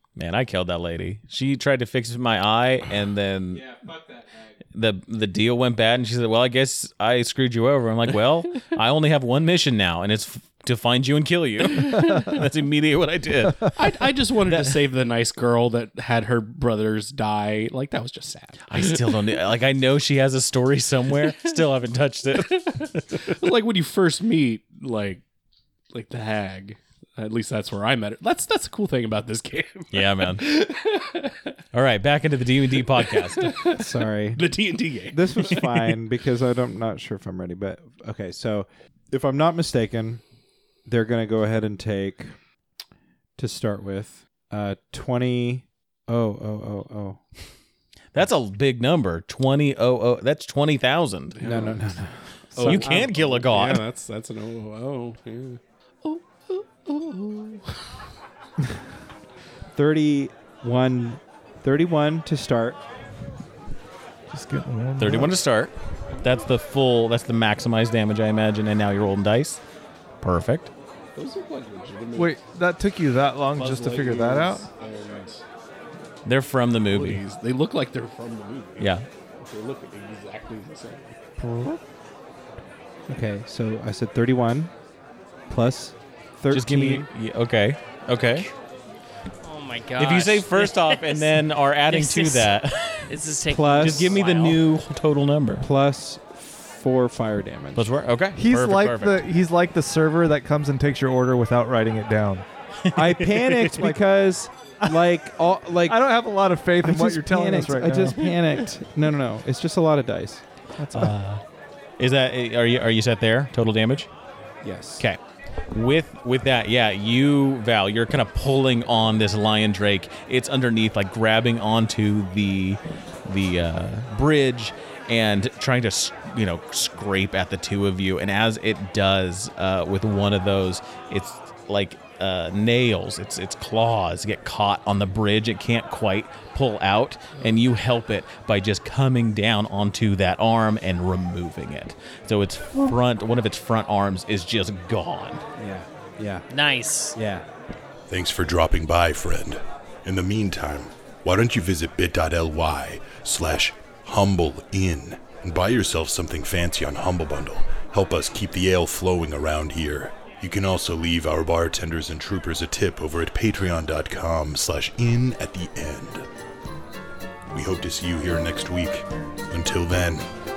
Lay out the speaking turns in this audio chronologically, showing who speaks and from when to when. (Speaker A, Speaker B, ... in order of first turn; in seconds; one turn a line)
Speaker A: 0.2-3.6
Speaker B: 3.5-4.6
Speaker A: 4.7-14.8
Speaker C: 13.8-19.2
Speaker A: 18.7-23.3
Speaker C: 21.2-21.5
Speaker C: 22.6-25.2
Speaker C: 25.9-31.6
Speaker A: 29.9-30.5
Speaker A: 31.7-33.7
Speaker C: 32.9-36.0
Speaker B: 33.7-34.5
Speaker B: 35.1-40.2
Speaker B: 40.9-42.3
Speaker B: 43.4-47.2
Speaker A: 48.1-51.4
Speaker C: 51.4-51.8
Speaker B: 51.4-53.1
Speaker C: 52.6-57.8
Speaker A: 52.6-53.8
Speaker B: 59.7-62.8
Speaker D: 64.3-65.4
Speaker A: 65.0-69.6
Speaker A: 70.2-70.7
Speaker C: 71.2-72.4
Speaker D: 72.2-74.7
Speaker C: 73.5-75.4
Speaker A: 76.2-77.2
Speaker C: 76.9-81.2
Speaker A: 78.8-79.1
Speaker D: 81.4-81.8
Speaker B: 83.1-84.7
Speaker B: 85.5-87.1
Speaker A: 86.5-88.5
Speaker E: 89.4-94.7
Speaker A: 90.0-93.2
Speaker B: 93.5-94.2
Speaker A: 93.8-95.7
Speaker B: 95.6-97.9
Speaker A: 97.8-99.2
Speaker D: 98.3-102.5
Speaker A: 102.8-103.8
Speaker B: 102.9-106.0
Speaker D: 103.7-104.0
Speaker D: 105.9-108.2
Speaker B: 106.8-110.4
Speaker D: 110.8-111.2
Speaker A: 110.9-111.4
Speaker A: 112.0-114.1
Speaker B: 114.6-115.0
Speaker A: 115.7-145.4
Speaker B: 145.6-146.5
Speaker E: 146.5-147.2
Speaker B: 147.2-147.5
Speaker F: 148.1-166.3
Speaker F: 167.5-170.2